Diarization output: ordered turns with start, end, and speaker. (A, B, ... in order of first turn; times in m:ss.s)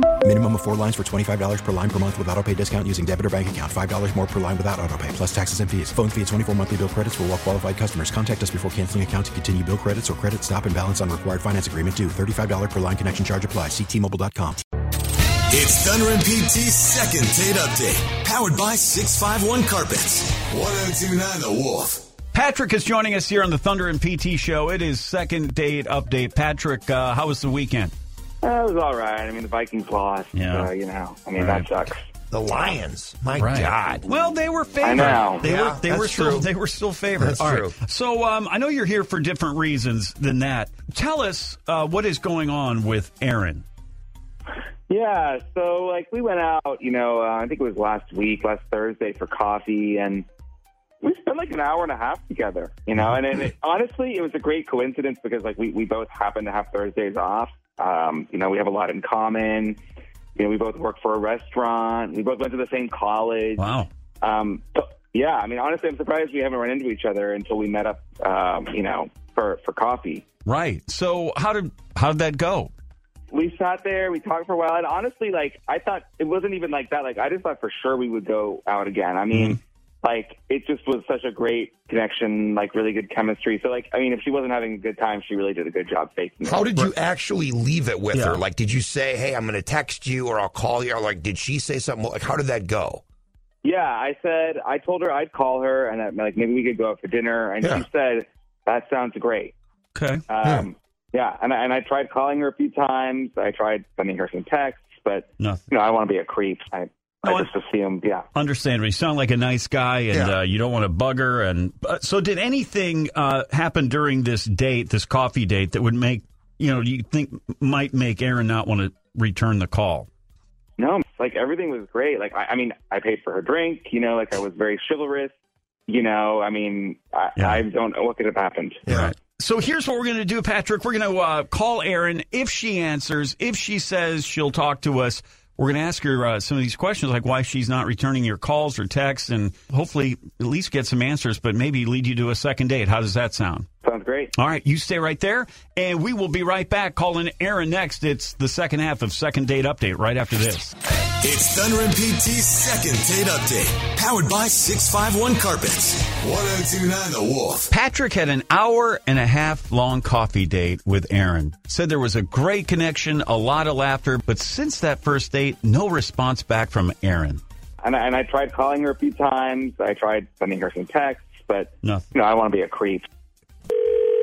0:00.2-0:14.6 A
0:15.5-0:22.0 B
0:22.3-0:27.9 C
0:28.4-0:32.0 D
0:30.3-0:30.7 C
0:31.4-0:31.7 C
0:32.3-0:34.0 E
0:33.4-0:43.6 C
0:34.8-0:35.4 D
0:35.4-0:36.5 E
0:37.2-0:37.8 E
0:44.9-0:50.2 D
0:51.0-0:59.8 D
1:00.4-1:03.6 D
1:03.6-1:03.9 C
1:04.2-1:10.2 D
1:10.4-1:12.7 C
1:13.3-1:26.8 D
1:26.4-1:33.0 E
1:28.1-1:28.4 C
1:33.6-1:39.5 D
1:39.9-1:40.2 C
1:40.3-1:48.2 D
1:45.4-1:45.6 C
1:47.2-1:47.5 C
1:48.3-2:00.1 C
1:50.1-1:50.4 E
2:00.8-2:05.3 D
2:05.9-2:08.8 D
2:07.4-2:07.6 C
2:08.9-2:09.1 E
2:08.9-2:23.7 C
2:23.8-2:24.3 D
2:24.3-2:30.7 C
2:31.2-2:37.7 B
2:37.7-2:47.4 C
2:47.8-2:53.0 D
2:51.8-2:52.1 C